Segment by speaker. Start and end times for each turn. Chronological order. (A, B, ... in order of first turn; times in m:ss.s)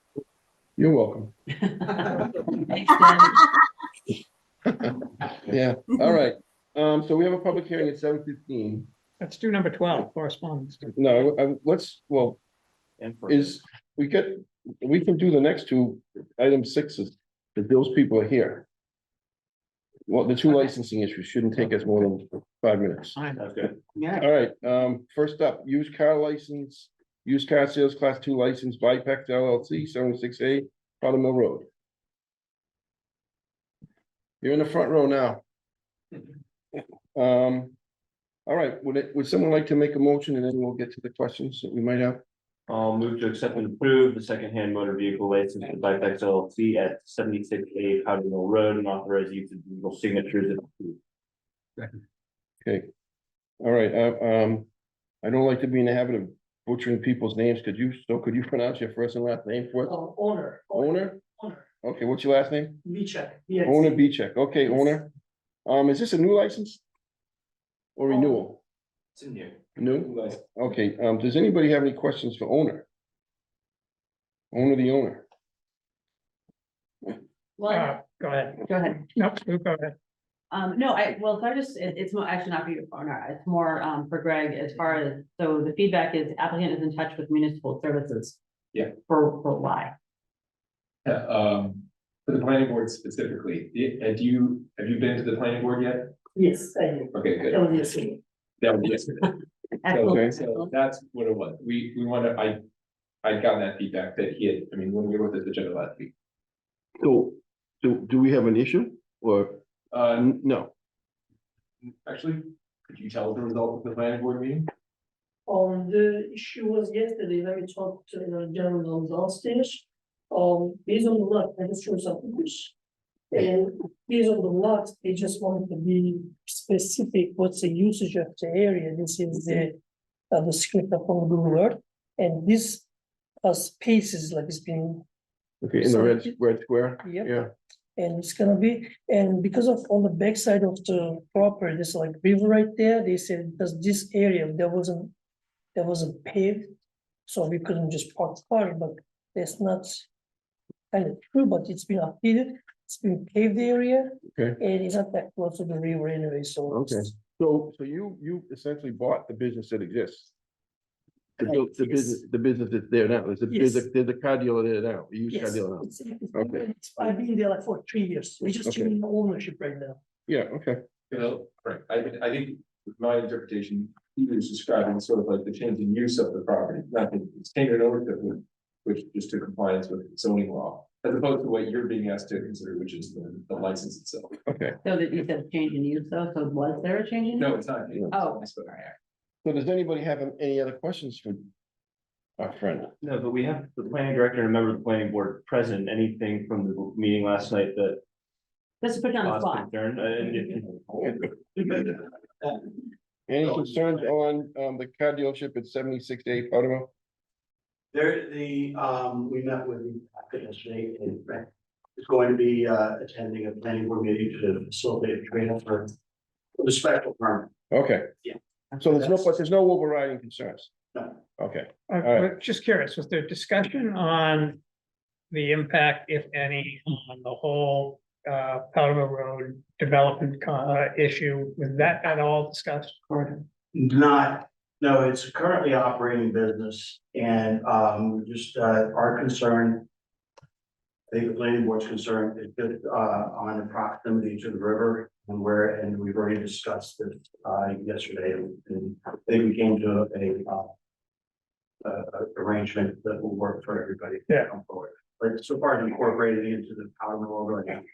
0:00.8-0:01.3 A
0:01.9-0:03.4 B
0:05.4-0:08.9 A
0:09.2-0:10.8 C
0:11.0-0:12.4 A
0:13.0-0:13.6 D
0:13.3-0:18.7 A
0:20.1-0:23.2 A
0:23.4-0:23.7 D
0:24.1-0:31.7 A
0:34.4-0:35.4 A
0:37.1-0:37.8 A
0:38.5-0:42.2 A
0:42.7-0:51.0 D
0:52.6-0:52.9 A
0:53.6-0:54.7 A
0:55.2-1:00.0 A
0:59.8-1:01.7 E
1:00.7-1:01.2 A
1:01.8-1:02.8 A
1:02.8-1:04.0 E
1:03.6-1:05.1 A
1:05.7-1:06.8 A
1:08.0-1:08.6 A
1:09.8-1:12.9 A
1:14.5-1:15.2 A
1:17.6-1:18.0 B
1:17.7-1:18.6 C
1:18.6-1:19.0 B
1:19.1-1:20.0 C
1:20.5-1:28.4 B
1:29.0-1:29.9 B
1:31.0-1:36.1 F
1:36.4-1:38.2 E
1:37.1-1:37.7 F
1:38.6-1:39.3 F
1:39.8-1:40.7 B
1:39.9-1:42.6 F
1:40.1-1:40.3 A
1:43.2-1:46.1 F
1:47.0-1:49.6 A
1:49.9-1:50.3 F
1:50.2-1:50.7 A
1:51.8-1:54.7 F
1:55.5-2:02.7 E
2:03.3-2:09.8 E
2:10.3-2:12.8 E
2:13.4-2:15.0 E
2:15.6-2:17.5 A
2:15.8-2:16.4 E
2:17.0-2:17.4 E
2:18.0-2:25.1 E
2:25.8-2:26.7 E
2:27.3-2:30.1 E
2:30.9-2:37.1 E
2:34.3-2:34.6 A
2:36.7-2:40.3 A
2:41.4-2:46.6 A
2:41.4-2:42.2 E
2:43.5-2:43.9 E
2:45.3-2:50.0 E
2:48.6-2:48.9 A
2:50.3-2:50.8 A
2:51.1-3:04.4 F
3:04.5-3:04.8 A
3:04.8-3:07.5 B
3:07.4-3:09.0 F
3:08.1-3:08.4 B
3:09.4-3:11.5 A
3:12.4-3:12.9 A
3:13.0-3:18.0 D
3:18.8-3:20.6 B
3:19.2-3:21.2 D
3:21.6-3:22.6 G
3:23.3-3:26.9 A
3:23.4-3:23.7 G
3:27.9-3:35.9 G
3:36.6-3:37.5 G
3:37.7-3:38.1 A
3:38.8-3:40.7 A
3:41.4-3:42.3 A
3:41.9-3:44.6 C
3:45.3-3:53.0 C
3:53.1-3:53.4 B
3:53.7-3:59.9 G
4:01.1-4:10.7 G
4:11.8-4:17.8 G